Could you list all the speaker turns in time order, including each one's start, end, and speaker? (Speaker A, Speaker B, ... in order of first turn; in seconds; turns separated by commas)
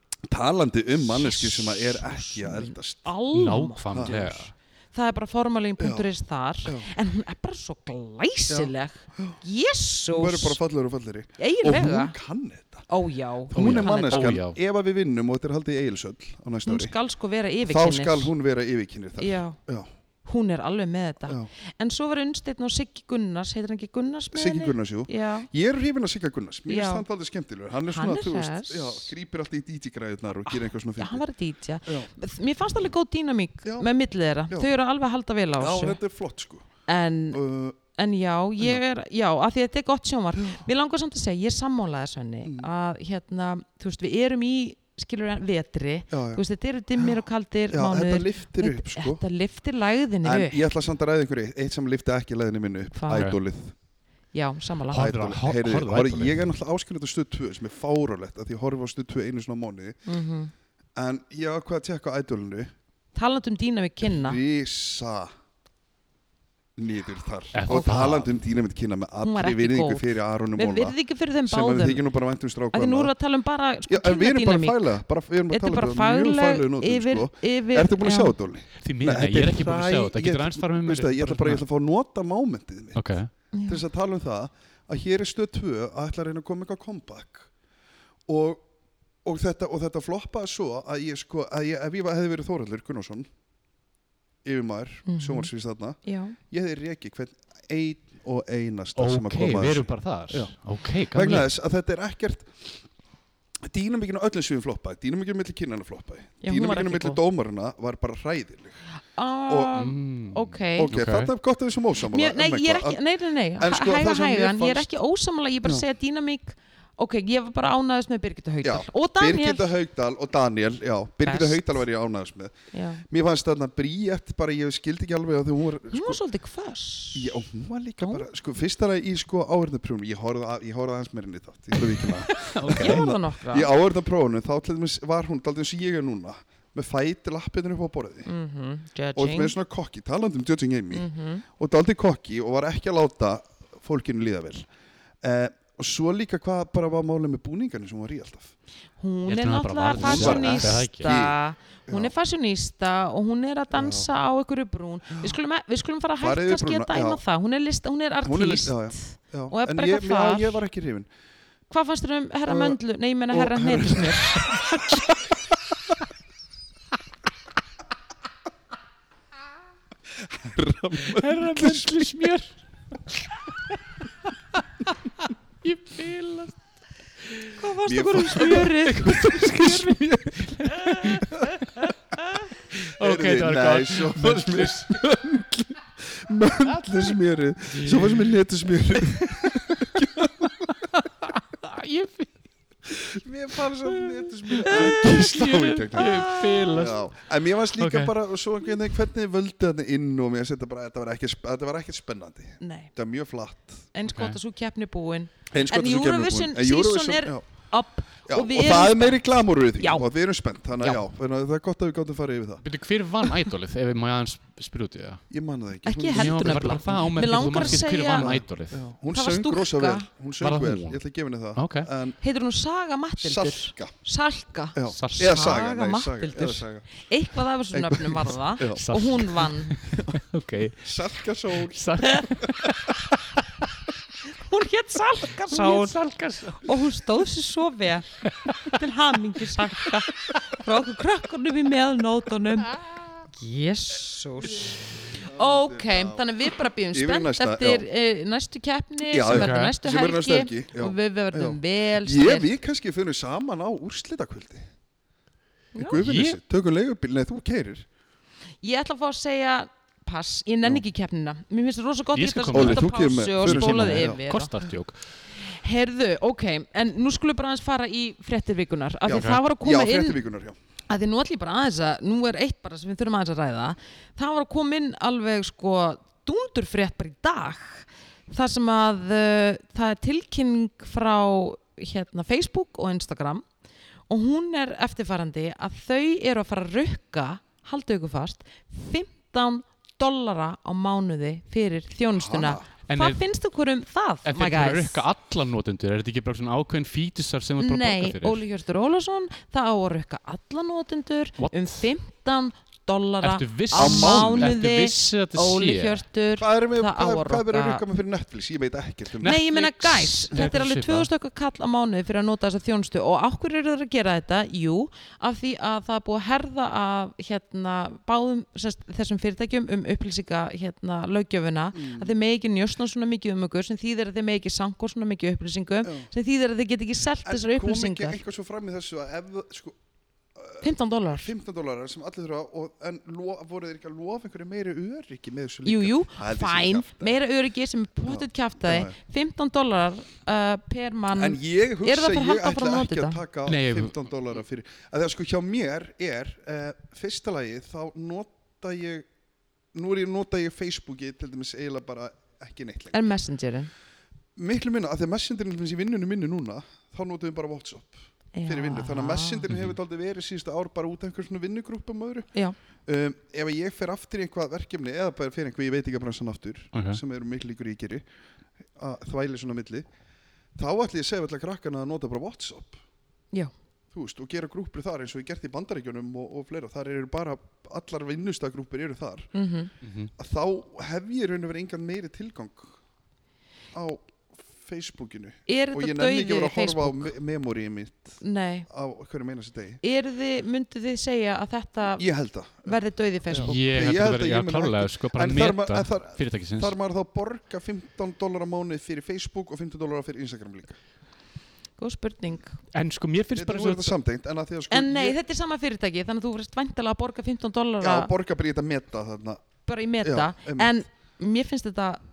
Speaker A: 0.3-3.1, Speaker B: 1.0-10.6, Speaker C: 3.3-4.5, Speaker A: 3.9-4.3, Speaker A: 5.8-6.0, Speaker A: 8.5-9.4, Speaker A: 10.1-12.9, Speaker B: 11.4-12.1, Speaker B: 12.9-14.4, Speaker A: 13.5-16.9, Speaker C: 13.5-14.6, Speaker B: 16.6-18.3, Speaker A: 17.6-19.9, Speaker B: 19.2-19.6, Speaker B: 20.2-25.5, Speaker A: 24.3-31.2, Speaker B: 26.7-27.0, Speaker B: 27.9-29.1, Speaker B: 30.5-36.0, Speaker A: 33.6-33.9, Speaker A: 35.6-36.7, Speaker B: 36.9-37.4, Speaker A: 37.3-37.8, Speaker B: 37.9-50.6, Speaker A: 42.4-42.7, Speaker A: 46.1-46.4, Speaker A: 47.7-49.2, Speaker A: 50.2-53.7, Speaker B: 52.9-53.3, Speaker C: 53.1-53.4, Speaker B: 54.3-55.1, Speaker C: 54.9-56.4, Speaker A: 54.9-60.0, Speaker B: 60.0-60.5, Speaker A: 60.9-62.7, Speaker B: 63.1-64.4, Speaker A: 64.0-65.3, Speaker A: 66.8-73.1, Speaker C: 67.5-68.3, Speaker B: 69.2-72.0, Speaker B: 72.7-74.9, Speaker A: 73.9-83.1, Speaker B: 75.5-78.3, Speaker C: 78.8-81.6, Speaker C: 82.9-83.3, Speaker B: 83.5-83.8, Speaker A: 83.7-87.5, Speaker A: 88.3-88.7, Speaker A: 89.2-93.3, Speaker A: 94.4-100.5, Speaker B: 95.0-95.5, Speaker B: 96.0-96.4, Speaker C: 99.0-101.5, Speaker A: 101.1-102.8, Speaker A: 103.6-108.8, Speaker B: 106.4-107.2, Speaker B: 109.1-110.9, Speaker A: 109.5-109.9, Speaker C: 109.7-111.3, Speaker A: 110.8-113.0, Speaker B: 112.1-119.7, Speaker A: 113.6-114.9, Speaker A: 118.6-126.2, Speaker B: 121.2-121.8, Speaker B: 122.7-123.0, Speaker B: 125.9-127.4, Speaker A: 127.1-138.3, Speaker B: 128.0-128.2, Speaker B: 132.3-133.7, Speaker C: 132.4-133.1, Speaker B: 138.2-139.6, Speaker A: 139.2-144.7, Speaker B: 140.9-141.4, Speaker A: 145.2-148.5, Speaker B: 149.0-160.6, Speaker C: 149.2-151.2, Speaker A: 149.9-152.1, Speaker A: 153.7-154.1, Speaker A: 156.2-157.2, Speaker A: 158.2-161.1, Speaker B: 161.7-164.5, Speaker A: 162.5-162.8, Speaker A: 163.3-165.0, Speaker A: 170.2-172.2, Speaker C: 171.0-172.5, Speaker C: 175.6-176.6, Speaker B: 177.5-180.0, Speaker A: 177.8-181.6, Speaker C: 178.7-179.8, Speaker C: 180.5-181.9, Speaker B: 180.7-181.2, Speaker C: 182.7-185.0, Speaker A: 183.0-190.7, Speaker C: 186.8-187.1, Speaker C: 187.7-188.3, Speaker C: 189.2-192.3, Speaker A: 192.9-203.9, Speaker C: 193.8-197.1, Speaker B: 194.6-195.2, Speaker B: 196.0-196.8, Speaker C: 197.8-198.1, Speaker B: 202.6-202.9, Speaker B: 203.9-209.2, Speaker C: 204.1-204.4, Speaker A: 205.5-207.4, Speaker A: 208.3-212.6, Speaker B: 209.8-210.1, Speaker C: 212.6-215.2, Speaker A: 215.3-222.2, Speaker B: 215.8-218.3, Speaker C: 216.1-218.8, Speaker B: 219.1-220.1, Speaker C: 220.4-221.0, Speaker C: 221.6-221.9, Speaker B: 222.2-229.8, Speaker A: 223.2-223.9, Speaker A: 224.7-226.9, Speaker C: 224.9-225.6, Speaker A: 227.7-228.8, Speaker C: 228.7-230.9, Speaker A: 229.9-230.2, Speaker A: 230.8-233.0, Speaker C: 231.6-233.4, Speaker B: 234.2-236.0, Speaker C: 235.5-236.8, Speaker B: 236.6-238.1, Speaker C: 238.2-238.8, Speaker B: 238.6-242.8, Speaker C: 239.6-240.4, Speaker B: 243.3-252.5, Speaker A: 245.1-246.3, Speaker A: 246.9-247.8, Speaker A: 249.1-254.7, Speaker C: 249.3-249.7, Speaker B: 255.7-256.0, Speaker A: 255.8-257.9, Speaker C: 256.0-256.4, Speaker B: 258.6-264.5, Speaker C: 262.1-265.0, Speaker A: 262.5-264.2, Speaker B: 265.4-270.2, Speaker A: 269.0-270.6, Speaker C: 269.1-269.4, Speaker B: 270.9-283.4, Speaker B: 284.1-295.1, Speaker A: 292.1-292.7, Speaker C: 292.9-293.2, Speaker C: 294.2-298.4, Speaker B: 297.6-307.8, Speaker C: 301.4-301.9, Speaker C: 303.2-306.0, Speaker A: 303.7-304.6, Speaker A: 306.4-309.4, Speaker C: 309.2-311.1, Speaker B: 309.2-328.2, Speaker A: 321.7-322.1, Speaker A: 327.2-329.8, Speaker A: 330.4-337.2, Speaker B: 330.6-331.3, Speaker B: 335.6-343.2, Speaker A: 338.1-338.9, Speaker A: 341.1-349.1, Speaker C: 343.5-344.0, Speaker A: 349.7-353.0, Speaker B: 352.9-353.7, Speaker A: 354.4-362.3, Speaker B: 358.3-359.5, Speaker C: 359.5-359.8, Speaker A: 362.9-368.0, Speaker C: 366.7-367.0, Speaker A: 368.8-369.9, Speaker A: 370.5-372.8, Speaker A: 373.9-379.3, Speaker B: 379.3-379.7, Speaker C: 379.8-380.1, Speaker A: 380.1-382.8, Speaker A: 383.7-389.8, Speaker B: 385.5-387.1, Speaker B: 388.2-388.7, Speaker B: 389.8-392.1, Speaker A: 392.0-392.8, Speaker B: 392.6-393.6, Speaker A: 393.3-400.8, Speaker C: 393.4-396.7, Speaker B: 401.8-402.6, Speaker C: 402.7-404.0, Speaker A: 403.3-405.2, Speaker B: 404.7-408.1, Speaker A: 407.8-409.5, Speaker B: 409.6-412.0, Speaker A: 410.0-410.7